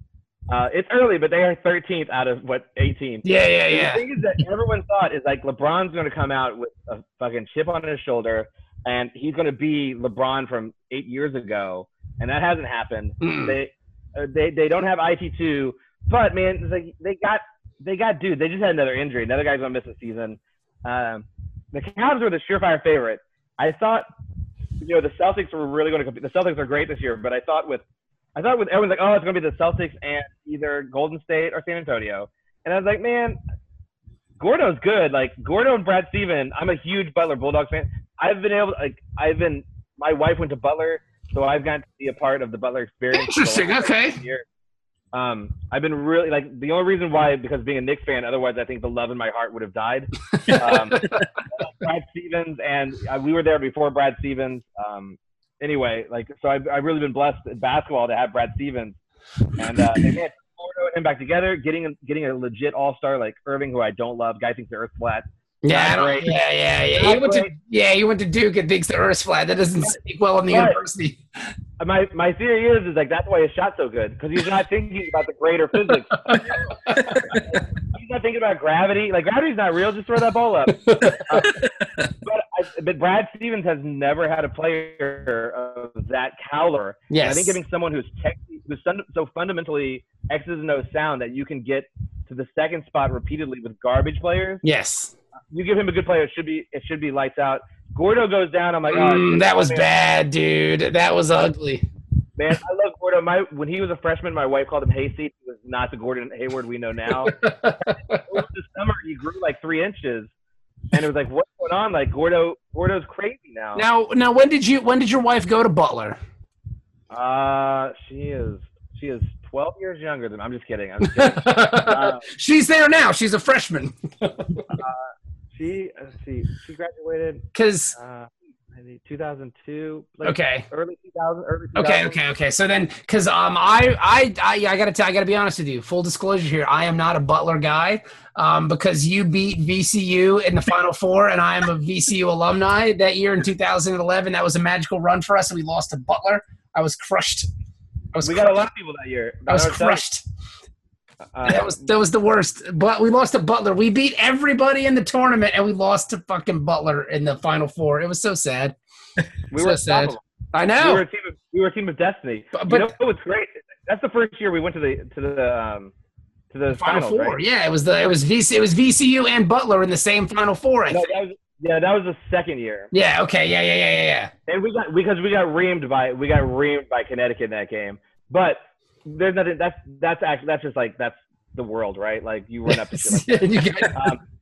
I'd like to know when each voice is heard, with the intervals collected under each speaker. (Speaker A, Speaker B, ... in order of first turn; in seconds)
Speaker A: 0.5-24.1, 24.8-27.8, 28.4-33.4, 34.4-44.5, 45.1-59.0, 59.5-66.4, 66.9-67.5, 70.5-70.8, 71.8-81.6, 82.2-94.6, 95.5-99.9, 102.4-110.3, 110.9-113.8, 117.1-122.3, 124.7-132.2, 148.2-150.0, 151.3-151.9, 159.5-160.2, 160.7-165.9, 166.5-167.4, 170.9-172.9, 174.5-184.2
Speaker B: 3.2-4.0, 13.2-13.6, 43.1-44.2, 65.6-71.5, 76.2-77.1, 80.8-81.5, 87.1-87.6, 94.6-95.1, 98.9-101.8, 107.2-108.0, 113.8-116.2, 121.0-124.6, 127.5-127.9, 130.2-130.7, 131.8-147.5, 148.1-148.7, 149.5-150.2, 151.4-158.8, 159.6-161.0, 162.5-162.9, 166.8-171.1, 172.9-174.3, 182.7-184.1